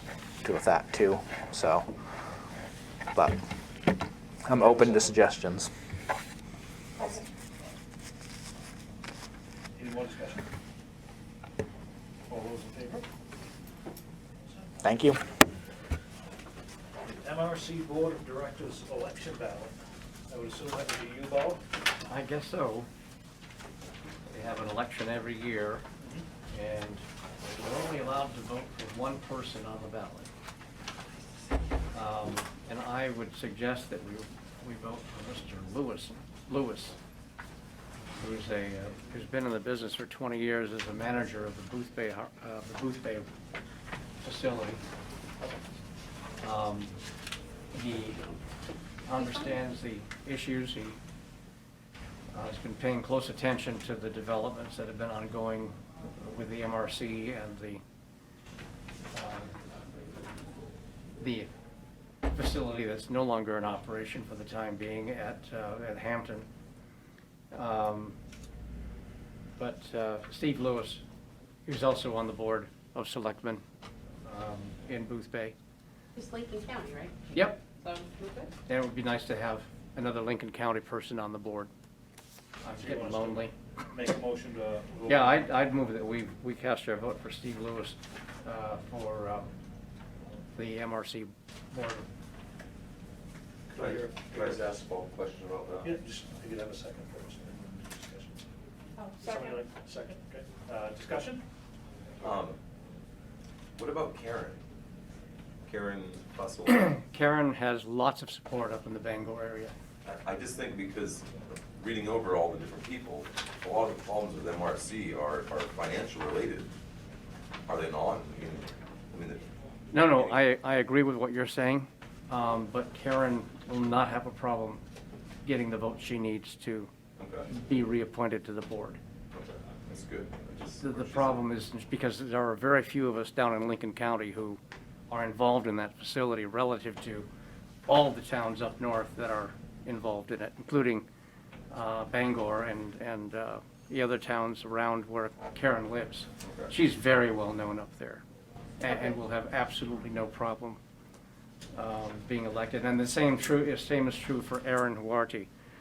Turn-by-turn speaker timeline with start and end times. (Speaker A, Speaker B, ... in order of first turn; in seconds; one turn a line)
Speaker A: 0.4-1.9
Speaker A: 4.4-5.7
Speaker B: 4.6-5.1
Speaker B: 9.7-10.4
Speaker B: 12.3-13.0
Speaker A: 14.8-15.2
Speaker B: 17.0-19.7
Speaker B: 20.3-21.6
Speaker C: 22.1-22.9
Speaker C: 24.3-25.8
Speaker B: 26.0-26.3
Speaker C: 26.5-30.3
Speaker C: 31.9-37.0
Speaker C: 38.2-43.2
Speaker C: 44.2-44.8
Speaker C: 46.4-46.9
Speaker C: 47.7-48.2
Speaker C: 49.0-51.0
Speaker C: 52.3-57.8
Speaker C: 59.1-59.5
Speaker C: 61.2-61.5
Speaker C: 62.3-66.5
Speaker C: 67.5-68.2
Speaker C: 69.6-71.0
Speaker C: 71.6-73.6
Speaker C: 74.2-75.5
Speaker D: 76.1-77.2
Speaker C: 77.3-77.6
Speaker D: 77.8-78.5
Speaker C: 78.7-81.7
Speaker C: 82.6-83.5
Speaker B: 82.7-85.3
Speaker C: 85.1-89.5
Speaker C: 90.5-92.1
Speaker B: 93.7-94.8
Speaker E: 93.7-95.9
Speaker B: 95.8-98.4
Speaker D: 99.0-99.4
Speaker B: 99.2-101.4
Speaker E: 102.2-102.6
Speaker E: 103.7-104.6
Speaker E: 105.7-106.9
Speaker C: 106.8-109.7
Speaker E: 110.0-116.7
Speaker E: 117.7-120.4
Speaker C: 119.9-124.8
Speaker C: 125.4-126.9
Speaker E: 127.2-127.5
Speaker C: 127.5-129.0
Speaker E: 129.3-131.4
Speaker C: 130.8-137.3
Speaker C: 137.9-141.1
Speaker C: 141.7-148.2
Speaker E: 146.4-146.7
Speaker C: 148.8-150.8
Speaker C: 151.7-155.5